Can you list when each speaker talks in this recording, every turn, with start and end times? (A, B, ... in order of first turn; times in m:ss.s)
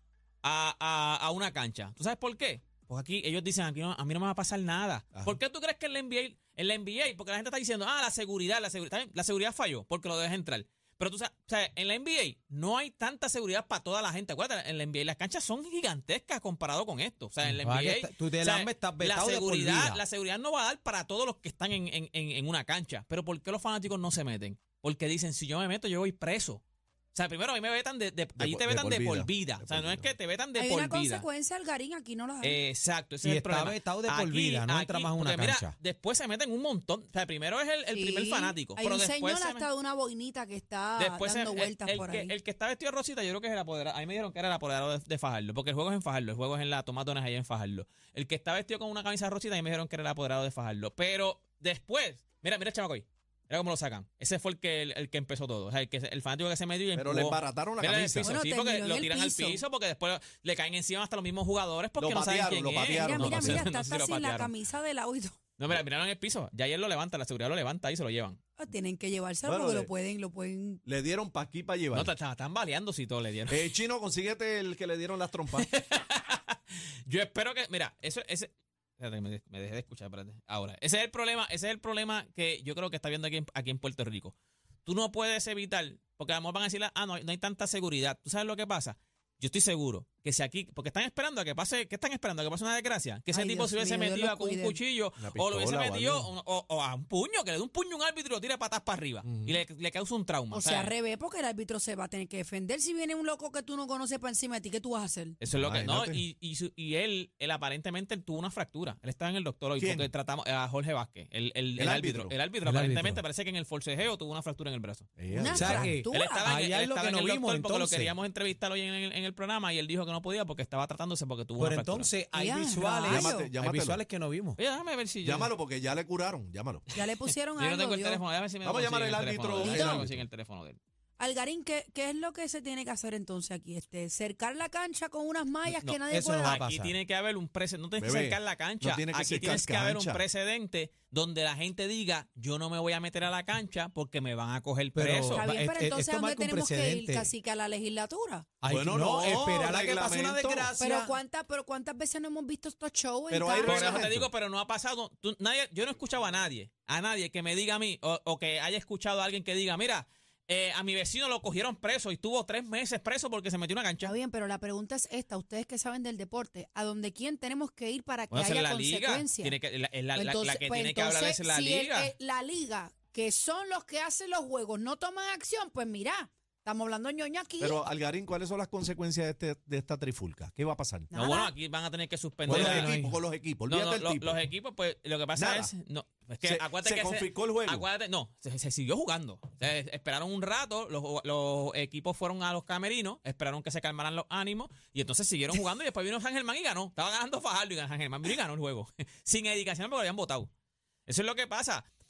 0:00.4-0:26.6 A
0:17.4-0:20.0 B
0:27.1-0:31.2 A
0:28.4-0:30.1 C
0:30.6-0:32.6 D
0:32.4-0:39.7 A
0:33.2-0:35.7 B
0:37.9-0:42.3 D
0:41.0-1:04.5 A
0:56.9-0:58.3 C
0:58.2-0:59.6 D
1:02.0-1:03.7 C
1:02.8-1:05.4 D
1:05.6-1:08.4 A
1:08.6-1:10.8 D
1:09.4-1:09.9 C
1:10.8-1:12.1 C
1:11.9-1:13.7 A
1:13.5-1:15.7 C
1:15.5-1:40.9 A
1:33.3-1:34.8 D
1:35.2-1:36.3 C
1:39.2-1:39.6 C
1:40.5-1:45.4 D
1:45.4-1:55.1 A
1:45.5-1:46.2 C
1:49.8-1:50.1 C
1:51.8-1:52.3 C
1:52.6-1:53.2 B
1:55.2-1:56.0 C
1:55.3-1:56.5 D
1:55.4-1:58.1 B
1:56.1-2:02.1 A
2:01.6-2:04.6 B
2:02.3-2:03.5 D
2:03.1-2:04.0 C
2:04.6-2:05.5 A
2:05.2-2:06.9 C
2:06.9-2:08.2 D
2:07.0-2:10.8 A
2:08.6-2:10.2 C
2:09.5-2:10.1 D
2:11.2-2:16.6 D
2:15.7-2:25.4 A
2:16.1-2:16.9 B
2:18.0-2:20.2 C
2:24.9-2:27.3 B
2:25.3-2:28.6 D
2:28.6-2:31.2 B
2:28.6-2:30.7 C
2:30.8-2:34.1 D
2:33.3-2:34.3 C
2:33.6-2:44.1 A
2:44.0-2:49.6 D
2:48.3-2:52.1 A
2:50.1-2:57.9 D
2:57.6-3:01.1 C
3:01.1-3:01.5 D
3:01.1-3:02.9 A
3:02.4-3:04.4 C
3:02.5-3:03.2 B
3:03.7-3:20.5 A
3:05.3-3:05.7 C
3:06.4-3:07.8 C
3:21.1-3:21.8 A